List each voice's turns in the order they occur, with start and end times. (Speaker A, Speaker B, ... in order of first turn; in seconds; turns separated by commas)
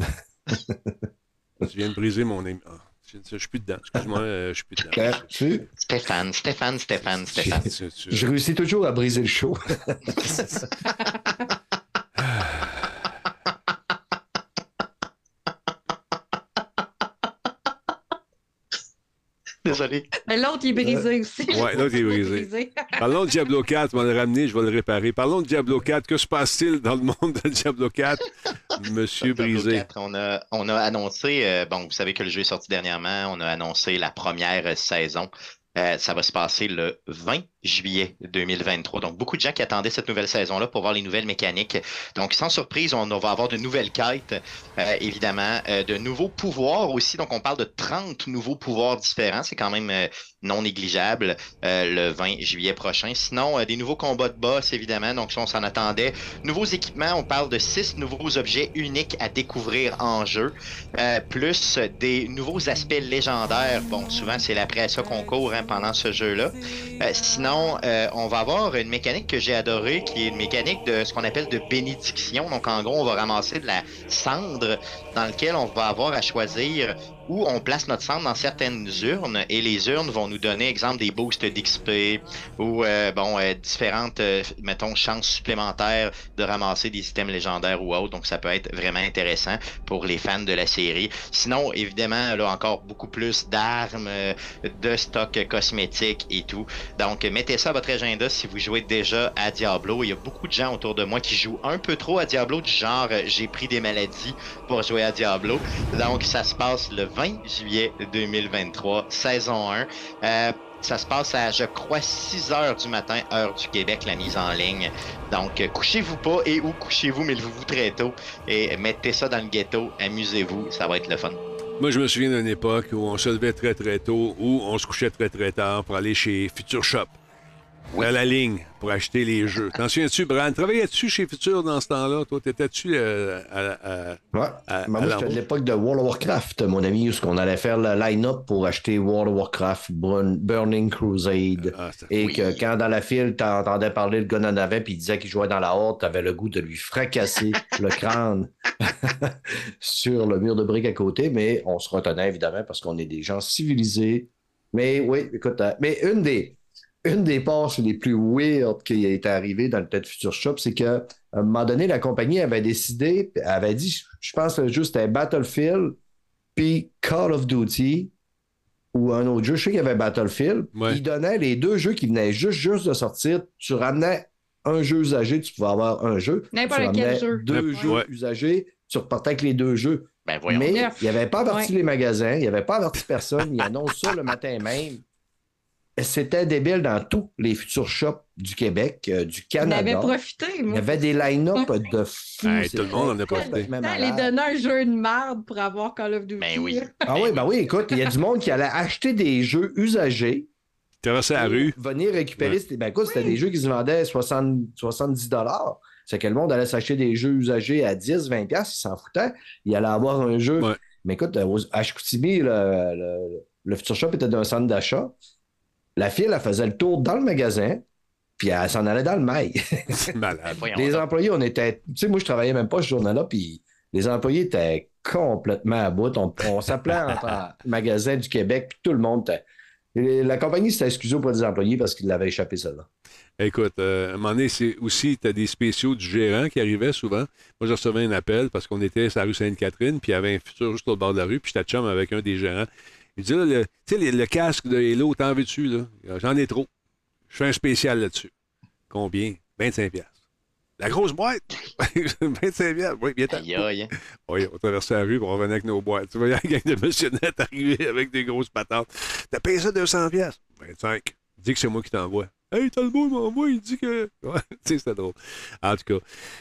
Speaker A: 0.5-1.0, Speaker B: 1.6-5.3, Speaker A: 4.9-5.7, Speaker C: 5.8-7.7, Speaker B: 7.0-8.3, Speaker A: 8.1-10.3, Speaker B: 12.2-12.7, Speaker C: 19.6-20.1, Speaker D: 20.3-23.0, Speaker A: 20.8-21.1, Speaker B: 21.5-29.8, Speaker C: 29.2-121.4, Speaker B: 121.8-127.2, Speaker B: 128.0-135.4, Speaker A: 134.3-166.0, Speaker B: 141.6-142.2, Speaker C: 142.2-142.6, Speaker A: 166.6-168.1, Speaker A: 168.9-185.0, Speaker D: 176.5-178.0, Speaker B: 177.5-178.1, Speaker C: 180.3-180.8, Speaker D: 180.7-181.7, Speaker A: 186.0-190.2, Speaker D: 189.6-191.0, Speaker A: 190.7-194.3, Speaker B: 192.4-193.7, Speaker D: 192.9-196.9, Speaker C: 196.4-197.5, Speaker A: 197.1-200.5, Speaker B: 201.0-201.8, Speaker D: 201.4-201.7, Speaker A: 201.5-215.1, Speaker D: 203.1-203.4, Speaker A: 216.0-217.8, Speaker A: 218.4-220.0, Speaker B: 220.0-220.6, Speaker C: 220.5-221.1, Speaker A: 220.7-229.4, Speaker A: 229.9-232.9, Speaker B: 233.4-246.7, Speaker B: 247.3-248.3, Speaker B: 248.9-250.2, Speaker B: 250.8-253.7, Speaker C: 253.3-253.9, Speaker B: 254.3-266.0